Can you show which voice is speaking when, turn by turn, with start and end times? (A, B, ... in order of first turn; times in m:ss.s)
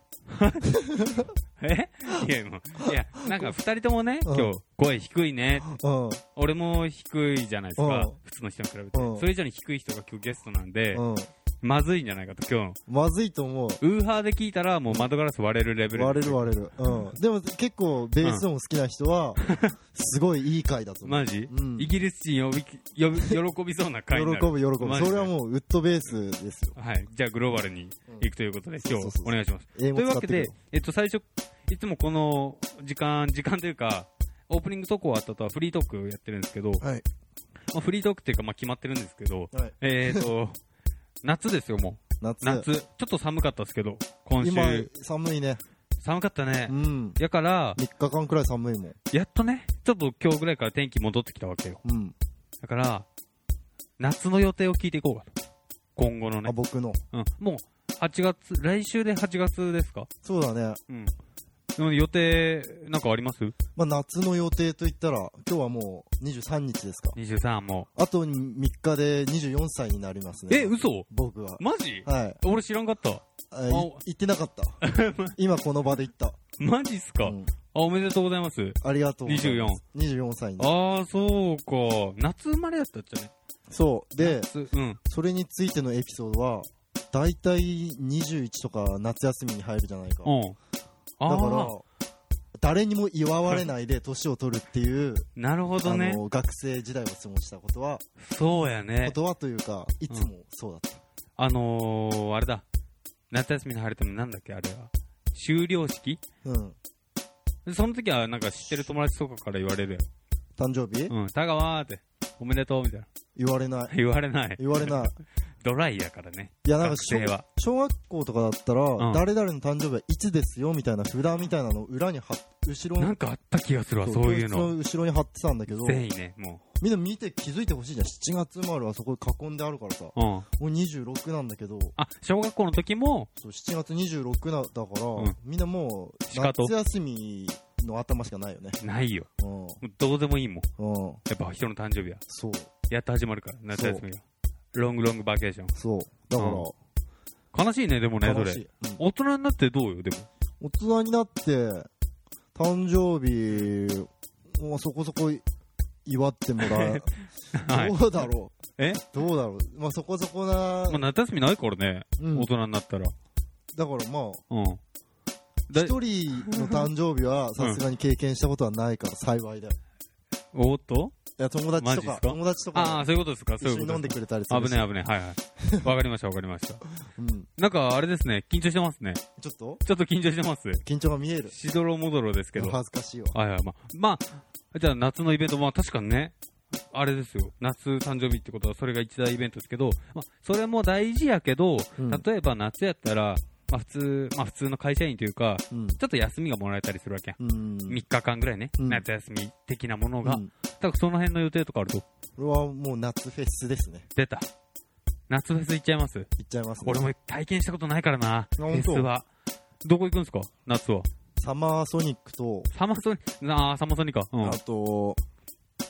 0:00.3-0:00.7 A
0:00.6-0:01.3 B
0:01.6-0:05.7 A
0:04.2-0:04.5 B
0:05.6-0:06.2 B
0:06.3-0:11.0 A
0:07.8-0:08.1 B
0:08.9-0:09.3 B
0:10.9-0:11.3 B
0:11.6-0:12.8 A
0:12.9-0:13.8 B
0:13.8-0:17.1 A
0:15.9-0:19.4 B
0:19.4-0:19.7 A
0:19.9-0:21.9 B
0:21.0-0:25.3 A
0:24.1-0:26.8 B
0:26.8-0:36.8 A
0:28.8-0:30.5 B
0:36.8-0:37.0 B
0:37.7-0:40.6 A
0:39.5-0:40.3 B
0:41.2-0:44.9 A
0:42.2-0:42.7 B
0:44.4-0:45.6 B
0:46.0-0:47.8 A
0:46.7-0:47.2 B
0:47.8-0:49.0 B
0:49.1-0:51.8 A
0:51.8-0:52.1 B
0:52.6-0:53.1 A
0:54.0-0:55.3 A
0:56.0-0:56.5 A
0:56.4-0:57.0 B
0:57.1-1:00.1 A
1:00.2-1:00.8 B
1:00.9-1:01.1 A
1:01.8-1:03.5 A
1:03.8-1:07.2 B
1:07.1-1:07.9 A
1:08.0-1:12.4 B
1:10.5-1:11.1 A
1:11.6-1:14.0 A
1:13.5-1:14.8 B
1:14.8-1:15.4 A
1:15.3-1:16.4 B
1:16.6-1:19.8 A
1:17.2-1:17.5 B
1:18.8-1:20.7 B
1:20.6-1:23.3 A
1:23.7-1:24.5 B
1:24.2-1:25.0 A
1:25.0-1:30.4 B
1:30.2-1:30.6 A
1:31.2-1:31.7 A
1:31.2-1:31.8 B
1:32.6-1:35.3 B
1:35.4-1:36.2 A
1:35.8-1:38.0 B
1:38.2-1:39.2 A
1:39.0-1:41.0 B
1:41.4-1:42.6 A
1:43.3-1:46.2 A
1:46.4-1:46.8 B
1:47.6-1:50.0 A
1:50.6-1:51.1 B
1:51.1-1:53.1 A
1:53.4-1:53.9 B
1:53.9-1:57.4 A
1:54.6-1:55.1 B
1:56.6-2:03.2 B
1:59.0-1:59.2 A
2:03.0-2:04.7 A
2:04.0-2:06.0 B
2:05.7-2:06.6 A
2:06.8-2:12.0 B
2:10.1-2:10.5 A
2:12.0-2:13.3 A
2:13.4-2:18.8 B
2:16.3-2:16.7 A
2:18.8-2:19.3 A
2:19.4-2:19.8 B
2:19.8-2:20.7 A
2:20.8-2:21.2 B
2:21.3-2:22.2 A
2:22.3-2:22.7 B
2:22.9-2:24.2 A
2:23.7-2:24.0 B
2:24.7-2:25.7 A
2:25.7-2:26.7 B
2:26.4-2:26.7 A
2:27.5-2:30.3 A
2:28.2-2:29.0 B
2:30.6-2:31.9 B
2:32.5-2:35.4 B
2:36.0-2:37.1 B
2:36.6-2:38.0 A
2:37.6-2:41.0 B
2:38.8-2:39.0 A
2:40.9-2:43.1 A
2:42.2-2:42.5 B
2:43.7-2:44.4 B
2:44.5-2:44.8 A
2:45.7-2:46.9 A
2:45.7-2:49.7 B
2:50.5-2:51.1 A
2:51.4-2:53.1 B
2:51.8-2:56.8 A
2:53.6-2:54.9 B
2:55.6-2:55.9 B
2:57.1-2:57.5 B
2:57.6-2:59.2 A
2:59.4-2:59.8 B
2:59.8-3:00.8 A
3:00.8-3:01.5 B
3:01.5-3:02.8 A
3:02.6-3:03.4 B
3:03.3-3:06.3 A
3:06.9-3:17.4 A
3:12.0-3:12.2 B
3:15.7-3:16.0 B
3:17.4-3:18.0 B
3:17.9-3:22.0 A
3:18.8-3:19.0 B
3:20.2-3:20.5 B
3:22.4-3:24.0 B
3:24.1-3:24.5 A
3:25.3-3:26.3 A
3:26.4-3:27.1 B
3:26.8-3:29.3 A
3:28.6-3:29.1 B
3:29.8-3:31.1 A
3:31.4-3:32.7 B
3:32.7-3:34.6 A
3:34.4-3:35.2 B